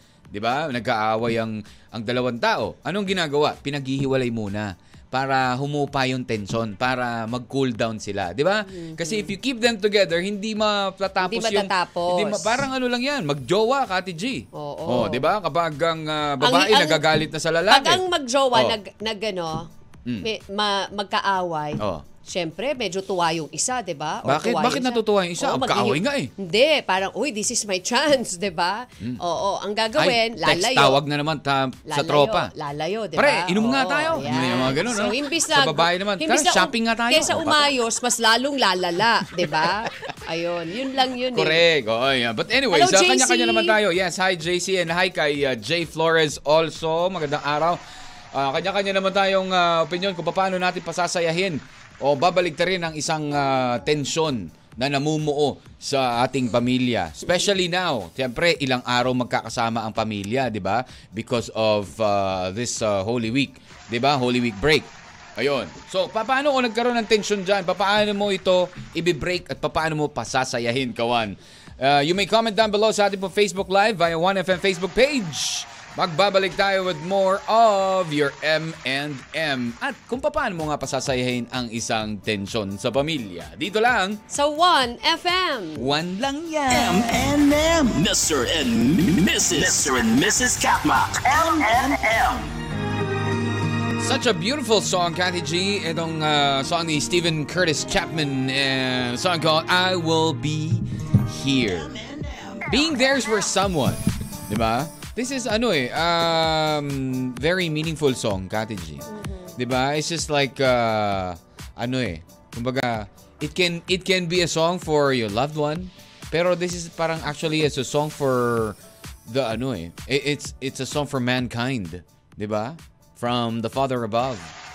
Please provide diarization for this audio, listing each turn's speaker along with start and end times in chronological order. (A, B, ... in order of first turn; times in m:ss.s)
0:00.3-0:18.0 A
0:08.7-0:09.3 B
0:11.2-0:12.6 B
0:14.5-0:15.3 B
0:16.4-0:17.0 B
0:17.7-0:19.7 B
0:20.2-0:31.0 B
0:21.8-0:22.0 A
0:24.2-0:26.3 A
0:30.0-0:32.5 A
0:31.9-0:41.6 B
0:33.2-0:37.7 A
0:39.4-0:39.9 A
0:41.3-0:47.8 A
0:42.7-0:43.8 B
0:48.3-1:24.2 A
1:24.3-1:25.9 B
1:25.8-1:27.2 A
1:26.7-1:32.5 C
1:34.0-1:42.0 A
1:41.9-1:42.7 C
1:42.6-2:04.5 A
1:49.1-1:49.6 B